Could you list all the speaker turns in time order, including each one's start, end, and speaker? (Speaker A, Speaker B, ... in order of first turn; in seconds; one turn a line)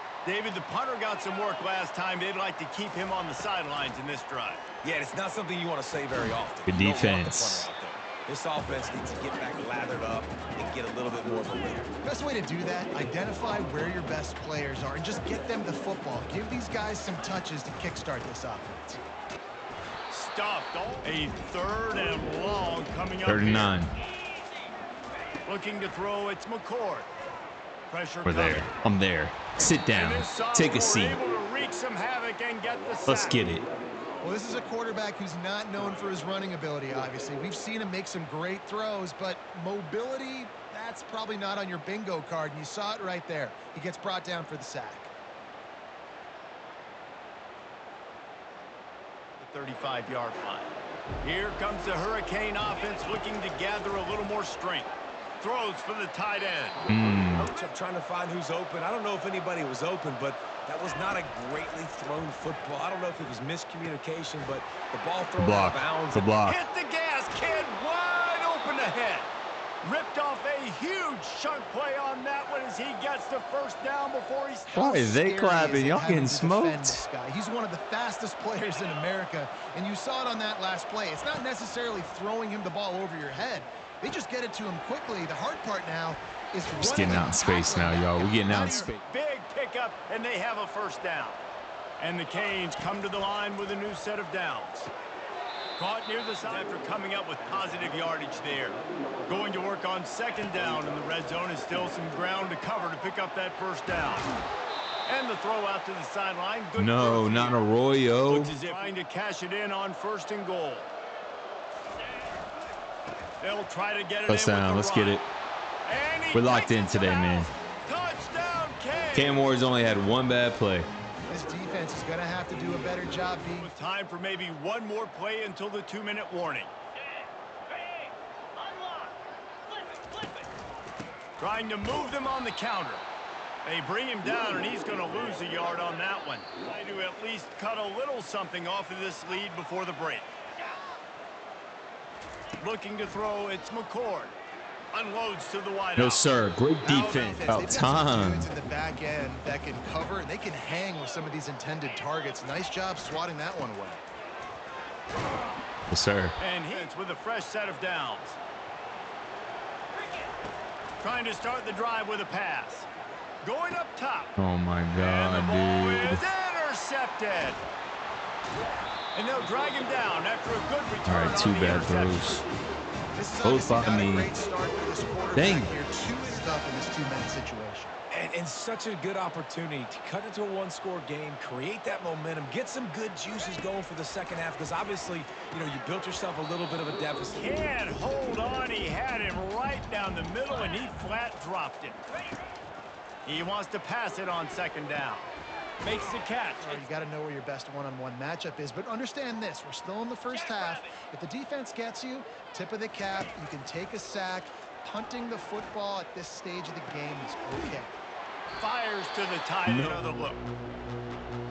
Speaker A: 0.2-4.6
Speaker B: 4.8-11.9
Speaker C: 6.7-7.7
Speaker D: 12.0-19.0
Speaker A: 20.1-23.8
Speaker C: 23.2-23.9
Speaker A: 25.4-27.1
Speaker A: 27.9-28.7
Speaker C: 28.2-31.2
Speaker A: 29.9-33.4
Speaker C: 33.1-33.6
Speaker D: 34.2-45.1
Speaker A: 49.4-56.8
Speaker C: 56.9-57.5
Speaker B: 57.3-66.3
Speaker C: 65.4-66.6
Speaker A: 66.4-69.3
Speaker A: 69.8-74.7
Speaker D: 74.7-88.9
Speaker C: 74.7-77.0
Speaker C: 86.8-89.0
Speaker A: 88.5-91.4
Speaker A: 92.0-94.9
Speaker A: 95.8-104.3
Speaker A: 105.0-107.6
Speaker C: 106.8-108.5
Speaker A: 108.2-110.9
Speaker A: 113.4-115.2
Speaker C: 114.3-115.3
Speaker A: 115.8-119.4
Speaker C: 116.3-117.5
Speaker C: 119.1-120.9
Speaker D: 121.3-123.7
Speaker A: 123.6-126.7
Speaker A: 131.4-133.0
Speaker A: 133.6-140.3
Speaker A: 142.6-144.3
Speaker A: 144.9-147.4
Speaker C: 146.0-148.5
Speaker D: 146.8-154.0
Speaker C: 155.9-156.4
Speaker A: 156.4-158.4
Speaker A: 161.0-162.9
Speaker A: 163.4-164.3
Speaker C: 164.4-166.2
Speaker A: 164.9-167.6
Speaker A: 169.1-172.4
Speaker C: 171.0-172.4
Speaker D: 173.1-177.9
Speaker C: 173.4-174.3
Speaker C: 175.3-175.7
Speaker B: 178.1-187.4
Speaker A: 187.3-192.0
Speaker A: 193.2-195.3
Speaker A: 195.8-196.9
Speaker D: 196.6-208.0
Speaker A: 208.6-210.4
Speaker C: 209.7-210.0